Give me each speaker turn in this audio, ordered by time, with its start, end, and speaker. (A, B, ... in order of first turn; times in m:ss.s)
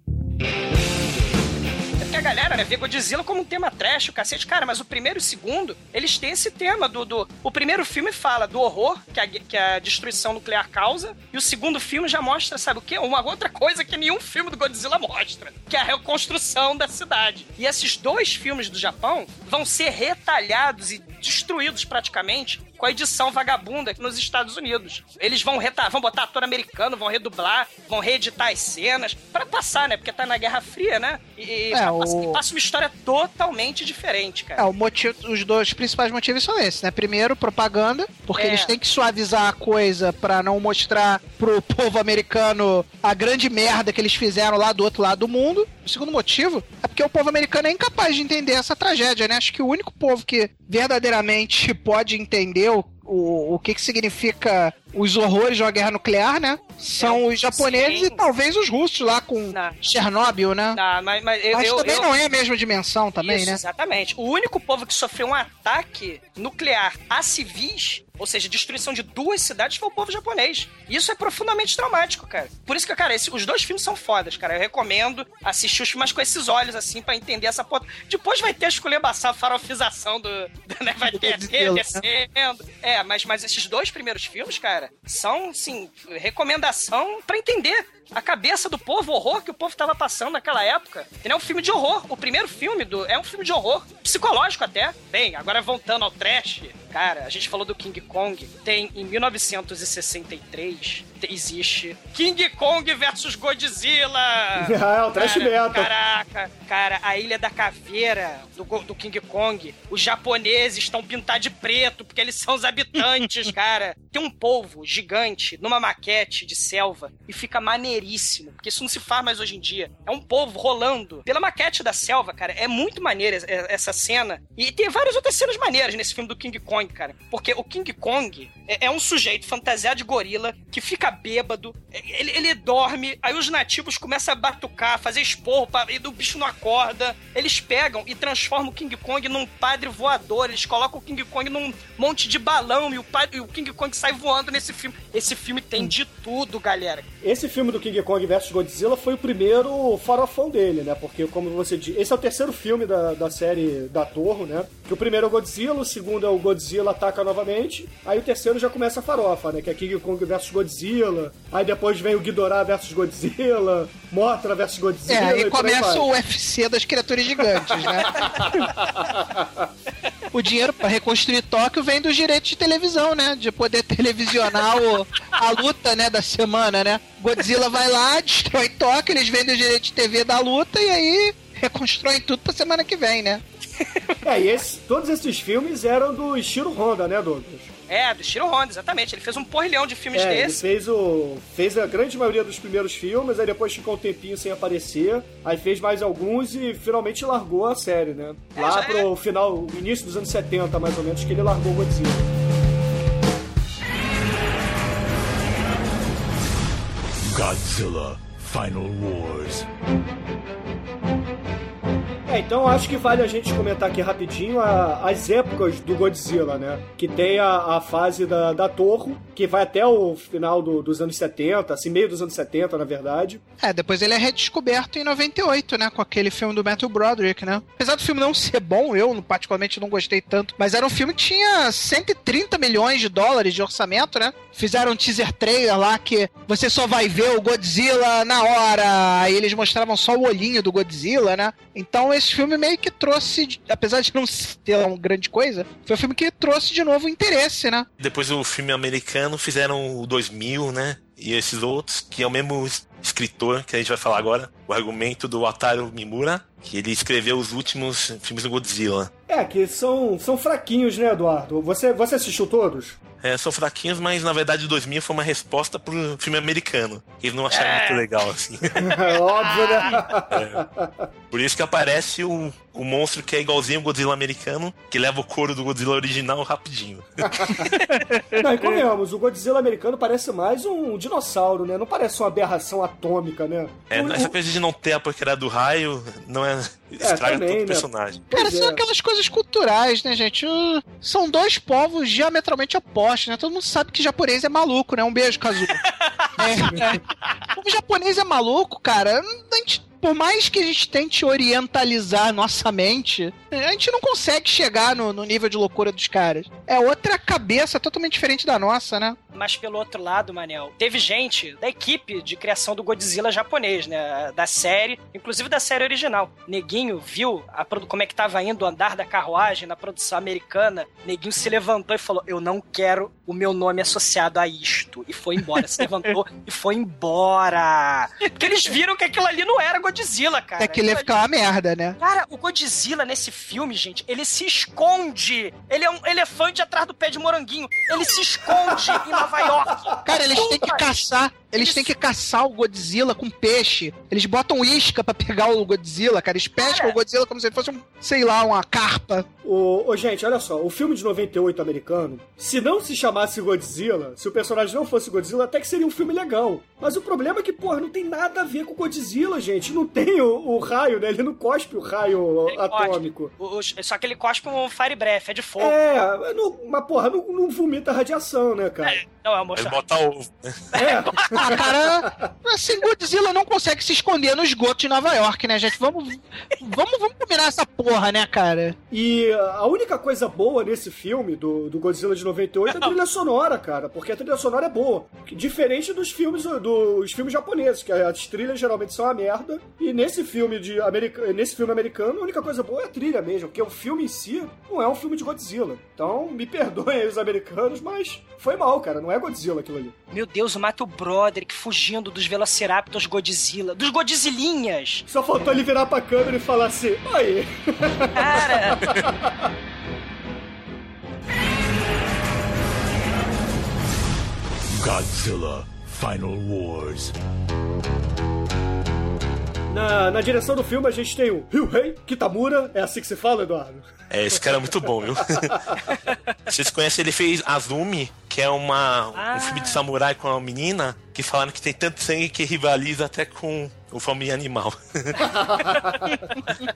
0:02.0-0:34.6 A
0:31.7-0:32.4 B
0:34.6-1:00.8 B
0:38.4-0:38.7 A
0:57.0-0:58.2 A
0:59.5-0:59.8 A
1:00.7-1:02.1 A
1:01.5-1:03.6 B
1:03.2-2:27.0 A
1:21.1-1:22.0 B
1:44.6-1:45.9 C
2:27.2-2:46.1 C
2:45.1-2:48.7 B
2:48.0-2:49.5 C
2:50.3-3:03.4 B
3:03.8-3:04.2 A
3:04.2-3:07.7 C
3:07.9-3:10.6 A
3:10.1-3:22.2 C
3:18.6-3:19.1 A
3:27.3-3:29.7 D
3:32.3-3:43.4 C
3:43.6-4:07.8 B
4:08.0-4:19.1 E
4:19.3-4:23.0 C
4:23.2-4:28.8 E
4:27.5-4:28.0 A
4:28.8-4:31.1 C
4:29.1-4:29.9 A
4:30.3-4:30.6 E
4:31.3-4:37.6 E
4:37.3-4:37.7 C
4:38.3-4:44.3 C
4:43.9-4:48.2 E
4:47.0-4:48.8 C
4:48.3-4:55.8 B
4:56.0-4:56.3 A
4:56.4-4:57.0 B
4:56.7-4:57.0 C
4:57.5-5:09.2 B
5:09.3-5:31.1 A
5:28.4-5:28.7 B
5:30.6-5:32.0 B
5:32.0-5:40.9 A
5:38.7-5:39.6 C
5:40.0-5:49.2 B
5:41.6-5:41.9 A
5:46.6-5:47.0 A
5:49.4-6:03.3 C
6:02.5-6:05.8 A
6:05.6-6:09.0 C
6:08.8-6:09.8 A
6:09.6-6:10.6 E
6:10.7-6:11.6 A
6:10.8-6:12.2 C
6:11.3-6:18.8 B
6:18.9-6:39.9 C
6:40.1-6:45.0 A
6:45.1-6:49.3 C
6:48.2-6:48.8 A
6:54.7-6:57.1 D
6:59.7-7:04.7 C
7:04.1-7:05.5 E
7:06.0-7:06.4 A
7:06.5-7:15.2 E
7:09.1-7:09.8 A
7:15.2-7:16.2 C